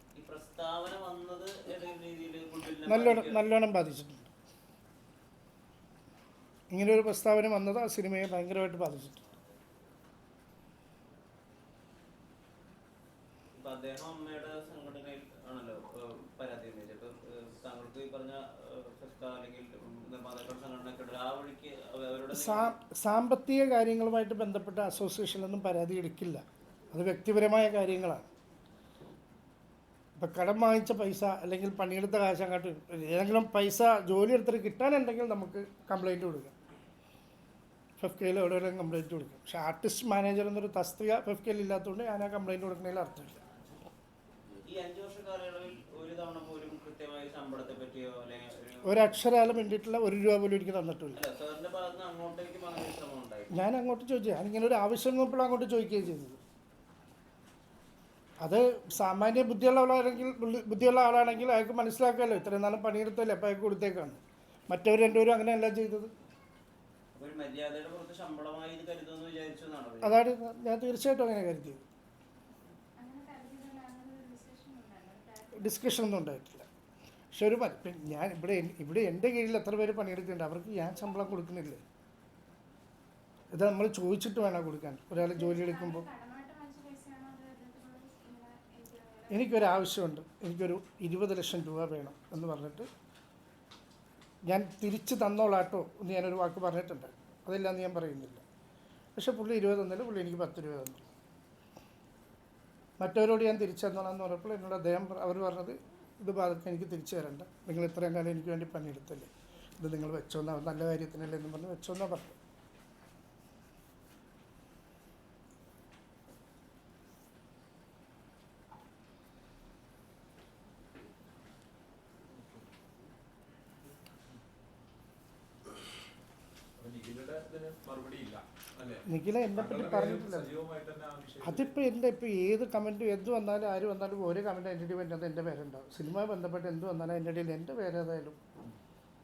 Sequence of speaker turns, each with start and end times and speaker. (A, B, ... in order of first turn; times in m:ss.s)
0:00.1-0:03.4 A
0:02.9-0:04.3 B
0:06.7-0:09.2 B
0:13.5-0:22.7 A
0:22.3-0:28.2 B
0:30.2-0:36.5 B
0:38.0-0:43.4 B
0:44.6-0:49.3 A
0:48.8-0:51.2 B
0:51.1-0:53.5 A
0:53.5-0:56.4 B
0:58.4-1:06.1 B
1:07.1-1:10.3 A
1:10.0-1:11.8 B
1:13.0-1:16.1 C
1:15.5-1:16.6 B
1:17.3-1:21.8 B
1:23.5-1:26.0 B
1:25.1-1:29.9 C
1:29.3-1:32.9 B
1:34.4-1:38.4 B
1:39.2-1:41.0 B
1:43.0-1:52.4 B
2:02.2-2:02.7 D
2:06.8-2:11.8 D
2:09.1-2:10.6 B
2:11.4-2:18.4 B